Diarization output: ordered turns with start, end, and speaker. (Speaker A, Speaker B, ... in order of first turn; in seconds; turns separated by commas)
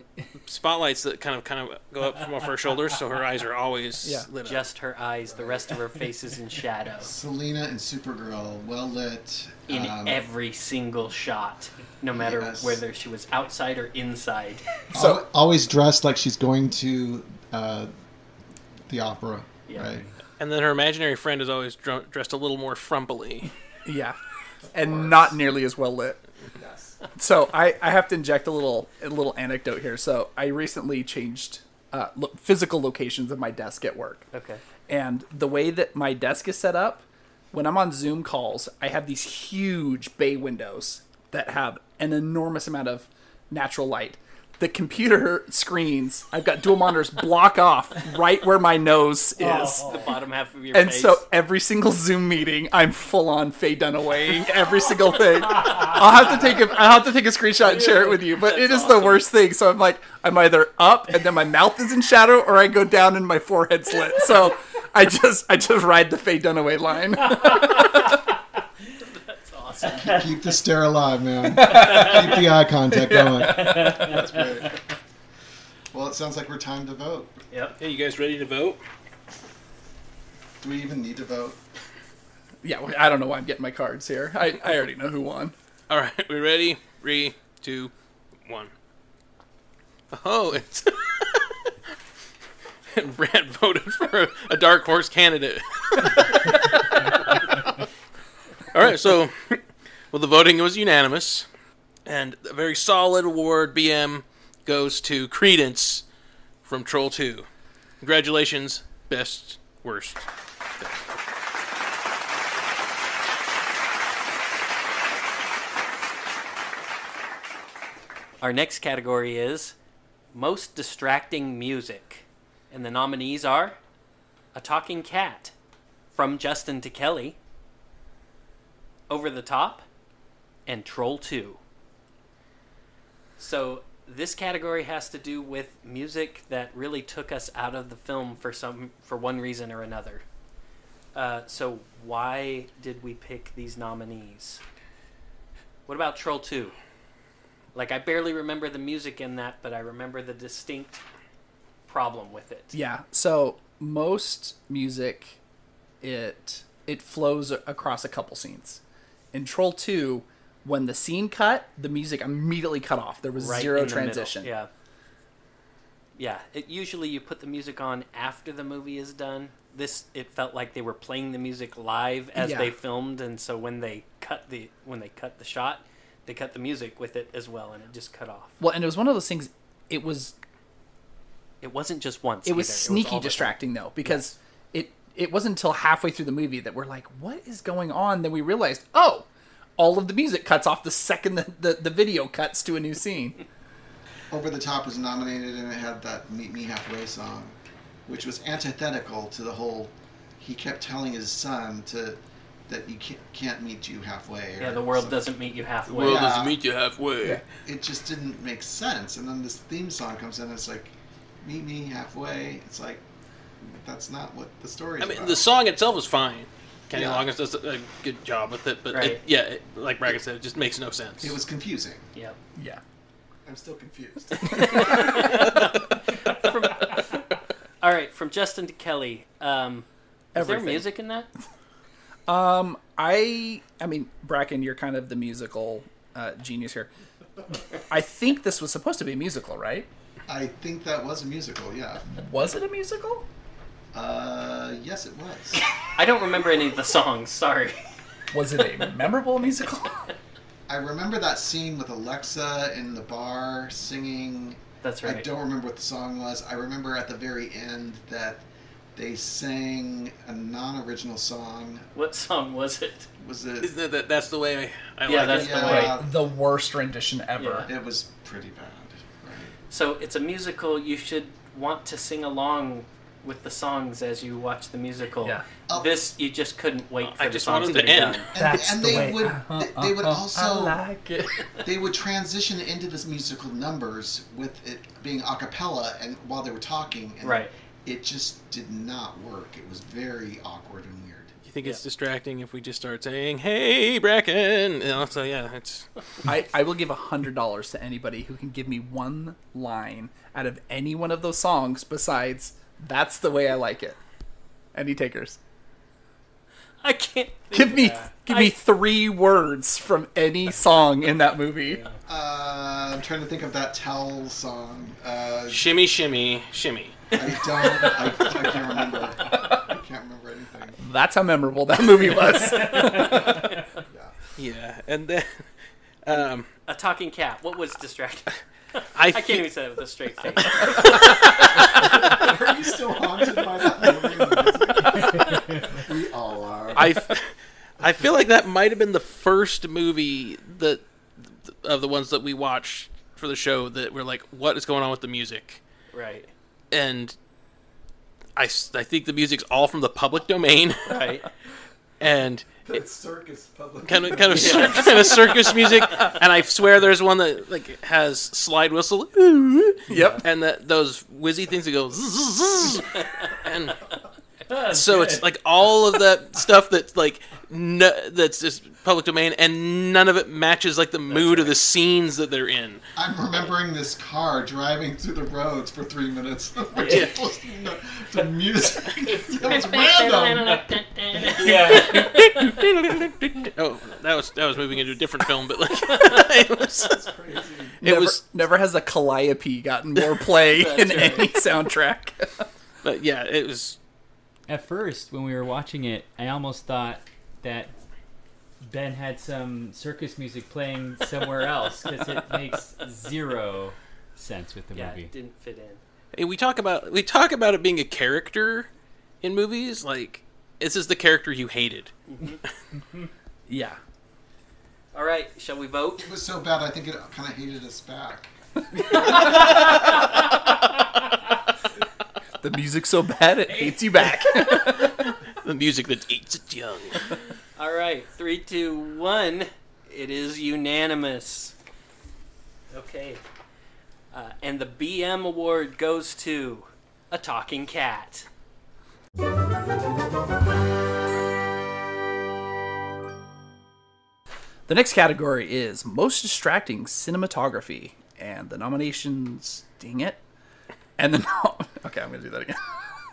Speaker A: 0.4-4.7, Speaker B: 4.0-4.3, Speaker C: 4.4-7.1, Speaker D: 5.2-5.7, Speaker D: 7.0-10.2, Speaker C: 9.7-14.7, Speaker D: 12.1-12.8, Speaker D: 14.9-17.9, Speaker B: 14.9-15.2, Speaker D: 18.9-20.1, Speaker A: 20.4-23.5, Speaker B: 23.8-24.2, Speaker D: 24.7-25.4, Speaker B: 24.7-26.2, Speaker D: 26.5-27.0, Speaker B: 27.1-34.3, Speaker C: 34.3-34.6, Speaker B: 34.9-49.9, Speaker C: 49.4-51.2, Speaker B: 50.7-68.2, Speaker C: 57.6-59.3, Speaker C: 69.0-70.2, Speaker D: 69.8-74.8, Speaker B: 71.5-74.3, Speaker D: 75.9-77.3, Speaker C: 77.5-77.8, Speaker A: 77.8-78.8, Speaker D: 80.6-81.6, Speaker B: 82.6-85.5, Speaker A: 85.9-87.9, Speaker A: 88.5-88.7, Speaker A: 90.1-91.6, Speaker A: 92.9-97.7, Speaker A: 98.7-101.5, Speaker A: 102.0-106.0, Speaker A: 106.6-107.5, Speaker A: 108.0-110.3, Speaker A: 110.8-111.0, Speaker C: 118.4-119.7, Speaker C: 120.3-123.8, Speaker C: 124.5-125.5, Speaker C: 126.1-127.4, Speaker C: 129.1-129.8, Speaker C: 130.7-131.6, Speaker C: 133.4-140.2, Speaker C: 141.1-144.6, Speaker C: 145.9-146.8, Speaker C: 147.7-151.0, Speaker C: 151.9-152.7, Speaker B: 152.7-155.4, Speaker B: 156.0-158.8, Speaker B: 159.3-164.5, Speaker C: 163.4-164.7, Speaker C: 166.2-178.6, Speaker B: 172.3-172.8, Speaker B: 178.6-180.3, Speaker C: 181.6-184.2, Speaker B: 182.4-189.2, Speaker B: 189.8-193.4, Speaker D: 194.3-202.2, Speaker D: 202.7-205.2, Speaker C: 204.6-206.3, Speaker A: 205.9-207.4, Speaker D: 206.0-206.6, Speaker D: 207.6-213.0, Speaker D: 213.6-215.4, Speaker A: 215.0-221.4, Speaker D: 216.9-217.3, Speaker C: 218.9-219.2, Speaker D: 221.2-222.1, Speaker B: 222.6-222.8, Speaker D: 223.4-225.5, Speaker C: 224.4-227.2, Speaker B: 224.5-224.9, Speaker C: 227.8-231.3, Speaker B: 230.3-230.9, Speaker B: 232.3-236.9, Speaker B: 237.9-239.9, Speaker D: 240.3-242.1, Speaker B: 242.1-243.2, Speaker D: 243.9-245.6, Speaker C: 245.8-247.8, Speaker B: 248.3-250.1, Speaker D: 250.7-258.4, Speaker C: 254.8-255.2, Speaker D: 258.9-261.9, Speaker C: 261.9-263.1, Speaker D: 263.2-263.7, Speaker A: 263.6-265.9, Speaker C: 265.1-265.9, Speaker D: 265.1-266.1, Speaker B: 265.6-267.7, Speaker C: 267.4-267.7, Speaker D: 267.6-269.6, Speaker C: 269.7-278.3, Speaker D: 275.7-276.1, Speaker A: 277.0-278.3, Speaker B: 277.6-281.5, Speaker D: 278.3-280.8, Speaker D: 281.6-291.3, Speaker C: 287.2-287.5, Speaker A: 291.4-295.9, Speaker B: 296.2-304.0, Speaker B: 304.7-305.4, Speaker C: 306.8-308.6, Speaker B: 307.5-311.8, Speaker C: 311.7-312.0, Speaker D: 312.0-315.7, Speaker A: 315.5-317.0, Speaker D: 317.1-320.8, Speaker B: 320.8-323.6, Speaker A: 324.4-325.5, Speaker A: 326.1-326.5, Speaker C: 326.6-328.4, Speaker A: 328.9-329.4, Speaker C: 329.0-331.2, Speaker A: 330.4-331.6, Speaker D: 331.1-337.1, Speaker A: 336.8-345.6, Speaker C: 345.9-346.3, Speaker A: 346.7-347.1, Speaker A: 348.4-351.2, Speaker C: 350.9-351.3, Speaker A: 352.0-352.6, Speaker D: 352.6-355.2, Speaker A: 353.9-363.8, Speaker B: 354.3-355.1, Speaker C: 354.3-354.9, Speaker B: 359.9-360.2, Speaker C: 359.9-360.2, Speaker A: 364.6-372.8, Speaker C: 371.1-371.5, Speaker D: 372.9-380.6, Speaker A: 376.8-377.1, Speaker C: 379.4-382.4, Speaker E: 381.4-381.9, Speaker A: 381.5-387.0, Speaker C: 385.9-386.2, Speaker D: 386.8-387.8, Speaker B: 387.8-392.5, Speaker A: 387.8-388.2, Speaker C: 390.5-391.4, Speaker A: 392.8-393.8, Speaker E: 394.5-397.7, Speaker E: 398.6-405.1, Speaker C: 402.0-402.9, Speaker C: 404.7-405.8, Speaker A: 406.1-408.7, Speaker A: 409.2-411.9, Speaker C: 412.1-412.4, Speaker B: 413.5-413.8, Speaker C: 414.9-416.1, Speaker D: 416.0-418.3, Speaker D: 418.9-419.8, Speaker B: 422.4-425.1, Speaker A: 424.4-427.1, Speaker C: 427.6-431.5, Speaker C: 432.7-433.2, Speaker C: 434.1-438.3, Speaker B: 444.7-450.2, Speaker B: 451.0-452.6